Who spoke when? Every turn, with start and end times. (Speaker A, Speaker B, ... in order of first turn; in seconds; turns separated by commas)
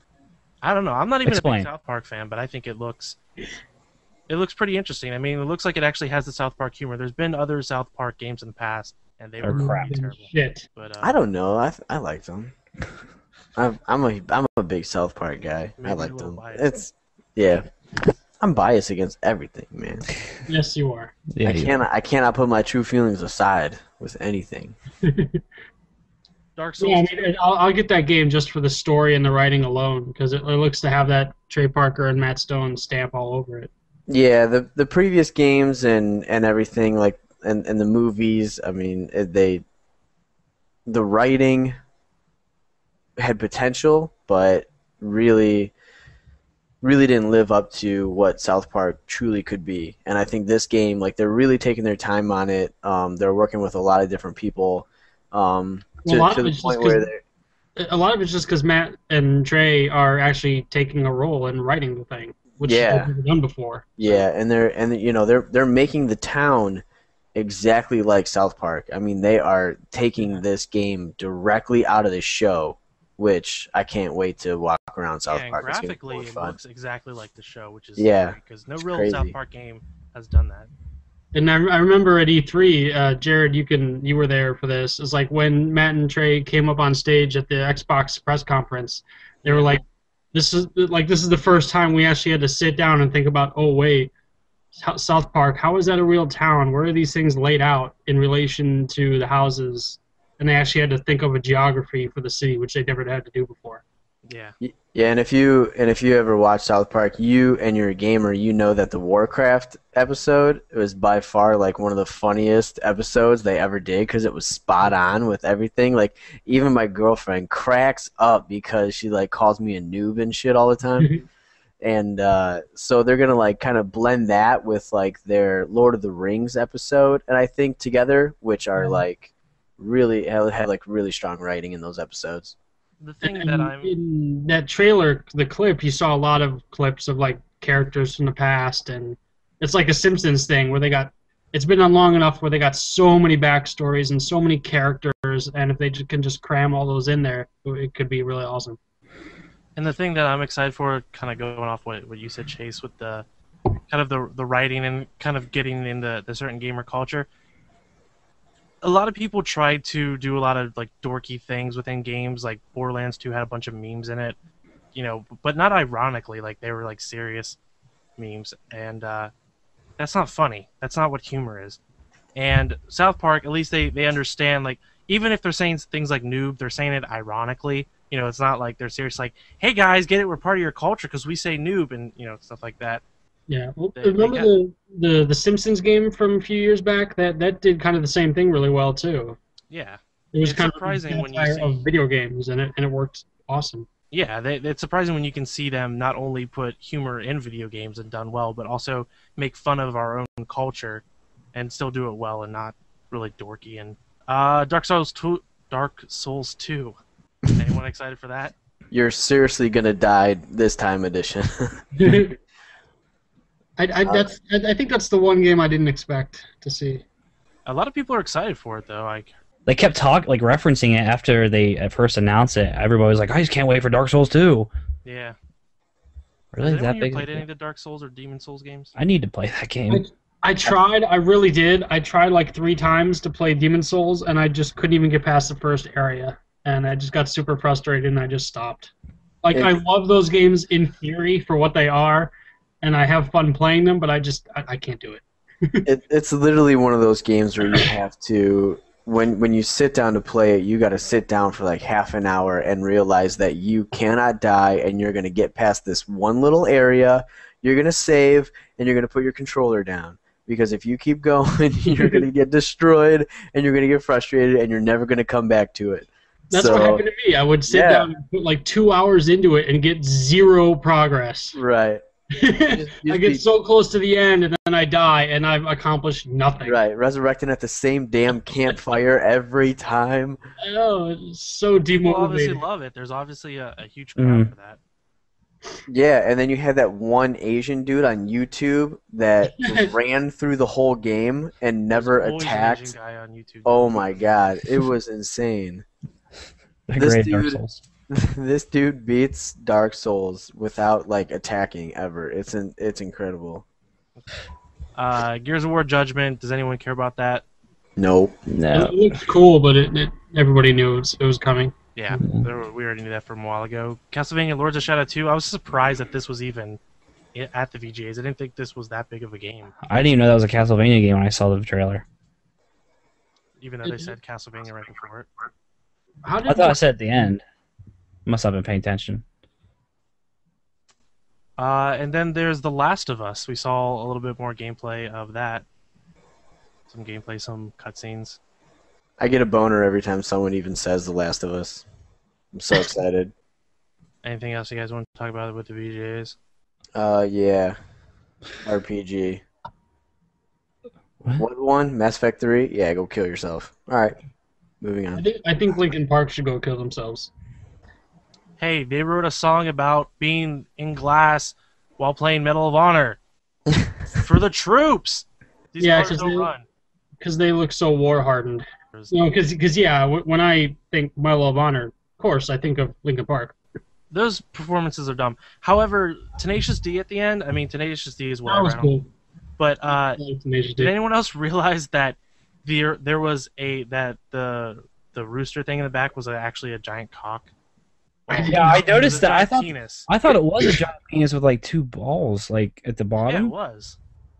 Speaker A: 0.6-3.2, Speaker B: 1.2-1.7, Speaker A: 4.3-11.2, Speaker B: 9.4-9.9, Speaker C: 9.5-10.7, Speaker D: 11.0-12.5, Speaker D: 13.6-17.7, Speaker A: 15.8-16.8, Speaker D: 18.4-20.1, Speaker C: 20.5-21.1, Speaker B: 21.3-21.7, Speaker D: 21.4-24.8, Speaker C: 25.0-25.4, Speaker A: 26.6-27.3, Speaker C: 26.8-33.7, Speaker D: 34.1-39.6, Speaker D: 40.9-41.7, Speaker D: 43.2-45.7, Speaker D: 46.8-57.2, Speaker C: 56.0-57.0, Speaker C: 57.8-64.2, Speaker D: 62.6-63.1, Speaker D: 64.0-66.8, Speaker D: 67.3-76.6, Speaker A: 75.3-80.7, Speaker D: 78.0-79.3, Speaker C: 81.3-94.1, Speaker A: 89.4-89.8, Speaker C: 94.7-103.8, Speaker A: 104.2-104.5, Speaker D: 104.6-121.1, Speaker C: 121.0-121.2, Speaker D: 121.8-132.5, Speaker C: 128.8-129.0, Speaker A: 133.0-133.9, Speaker C: 133.2-148.8, Speaker A: 149.8-153.2, Speaker A: 153.9-157.3, Speaker A: 158.8-164.4, Speaker A: 164.9-167.6, Speaker A: 168.2-169.3, Speaker A: 170.0-171.8, Speaker A: 172.3-183.0, Speaker C: 183.5-189.4, Speaker A: 183.9-184.5, Speaker A: 189.7-191.8, Speaker C: 190.3-193.9, Speaker A: 194.1-206.9, Speaker A: 207.6-208.5, Speaker D: 208.9-212.2, Speaker C: 212.0-212.4, Speaker C: 213.8-217.0, Speaker A: 217.7-219.3, Speaker B: 219.7-224.7, Speaker A: 225.0-225.3, Speaker A: 226.5-228.9, Speaker B: 226.5-227.4, Speaker B: 228.9-230.0, Speaker C: 229.9-238.9, Speaker C: 239.4-245.8, Speaker D: 245.8-267.0, Speaker C: 261.9-262.2, Speaker C: 266.5-271.6, Speaker D: 267.7-268.1, Speaker D: 271.5-272.0, Speaker C: 272.3-276.8, Speaker D: 272.7-273.4, Speaker D: 276.6-280.4, Speaker C: 280.6-282.6, Speaker A: 281.9-284.8, Speaker B: 284.2-284.5, Speaker D: 285.9-292.9, Speaker C: 289.6-289.9, Speaker A: 291.9-294.4, Speaker D: 293.6-295.8, Speaker B: 296.9-297.8, Speaker D: 297.0-303.6, Speaker A: 304.9-307.4, Speaker D: 308.0-308.4, Speaker B: 308.5-308.9, Speaker C: 308.7-312.2, Speaker A: 311.9-316.8, Speaker A: 317.3-319.8, Speaker B: 319.8-322.0, Speaker A: 323.6-325.3, Speaker C: 323.8-324.1, Speaker C: 326.2-326.8, Speaker B: 326.4-327.4, Speaker B: 328.2-329.2, Speaker A: 331.6-335.6, Speaker A: 336.9-338.4, Speaker D: 339.2-341.8, Speaker D: 342.5-343.3, Speaker A: 344.2-346.4, Speaker D: 346.9-347.8, Speaker D: 348.6-349.4, Speaker D: 351.4-354.2, Speaker D: 354.8-355.2, Speaker C: 355.2-357.3, Speaker A: 358.6-363.2, Speaker A: 364.2-366.6, Speaker C: 365.8-366.5, Speaker C: 367.2-373.5, Speaker A: 368.9-369.2, Speaker A: 374.1-378.9, Speaker C: 378.4-379.1, Speaker A: 379.6-380.2, Speaker C: 380.2-380.9, Speaker A: 380.8-387.5, Speaker A: 388.2-390.1, Speaker C: 388.3-388.9, Speaker B: 388.5-393.5, Speaker A: 393.2-394.0